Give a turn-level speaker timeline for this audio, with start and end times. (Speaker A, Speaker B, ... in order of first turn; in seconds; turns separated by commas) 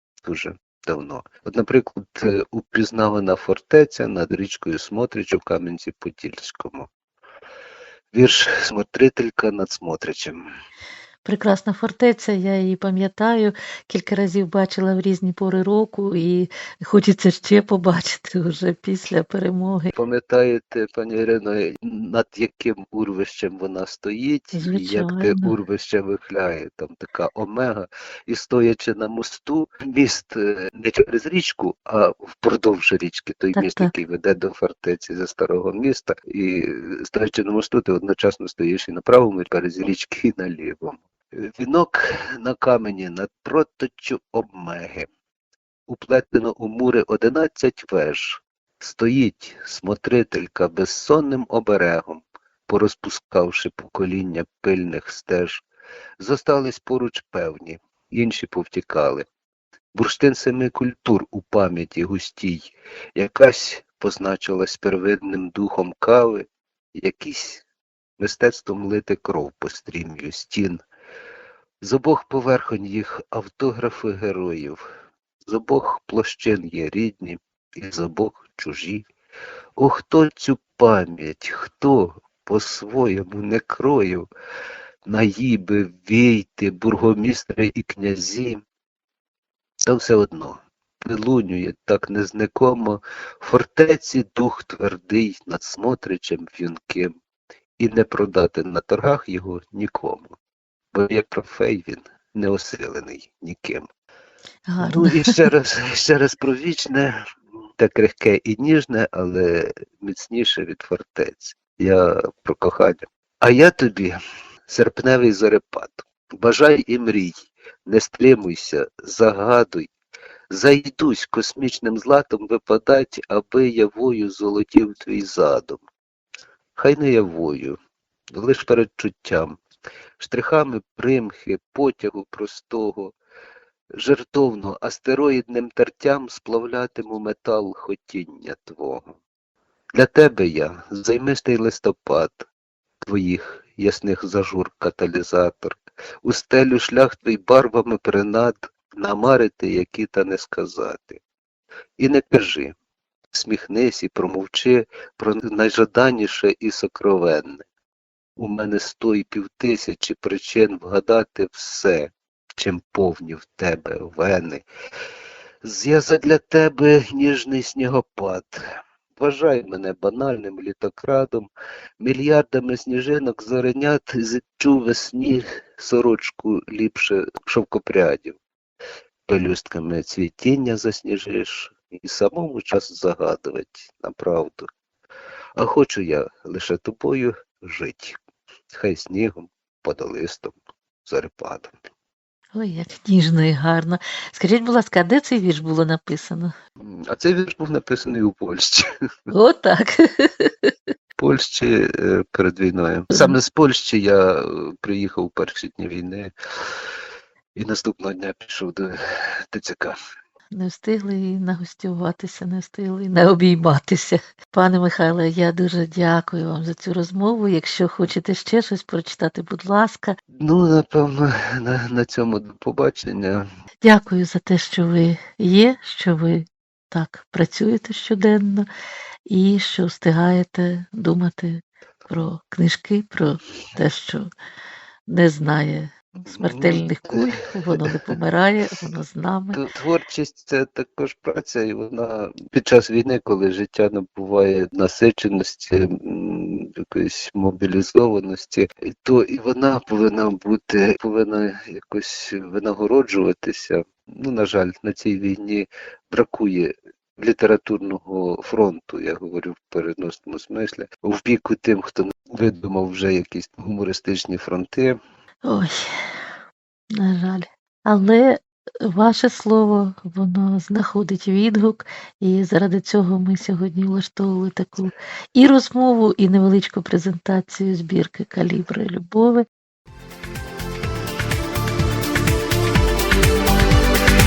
Speaker A: 0.2-6.9, Speaker A: 8.1-10.4, Speaker B: 11.2-19.9, Speaker A: 19.9-45.1, Speaker B: 24.5-25.6, Speaker B: 33.5-33.9, Speaker A: 45.9-55.6, Speaker A: 56.2-59.2, Speaker A: 59.9-67.6, Speaker A: 68.2-70.8, Speaker A: 71.8-74.8, Speaker A: 75.4-79.1, Speaker A: 79.8-84.3, Speaker A: 85.1-88.6, Speaker A: 89.9-97.1, Speaker A: 97.8-100.3, Speaker A: 100.9-103.9, Speaker B: 104.7-105.5, Speaker A: 104.8-107.1, Speaker A: 107.8-114.1, Speaker A: 114.7-119.9, Speaker A: 120.5-125.8, Speaker A: 126.8-127.8, Speaker A: 128.3-129.6, Speaker A: 130.2-133.1, Speaker A: 133.9-139.1, Speaker A: 139.9-142.5, Speaker A: 143.0-151.2, Speaker A: 152.0-152.8, Speaker A: 153.3-157.6, Speaker A: 158.4-164.6, Speaker A: 165.6-168.6, Speaker A: 169.1-171.5, Speaker A: 172.0-178.4, Speaker A: 179.3-184.7, Speaker A: 185.6-188.2, Speaker A: 188.7-191.8, Speaker B: 192.5-196.5, Speaker A: 196.8-198.8, Speaker B: 199.3-200.7, Speaker A: 201.2-206.3, Speaker B: 203.1-203.4, Speaker A: 207.6-209.9, Speaker B: 210.5-220.2, Speaker A: 220.3-223.4, Speaker B: 223.8-228.7, Speaker B: 229.3-234.3, Speaker B: 235.1-239.6, Speaker A: 236.3-238.0, Speaker A: 239.5-264.9, Speaker B: 265.4-266.1, Speaker B: 267.0-279.4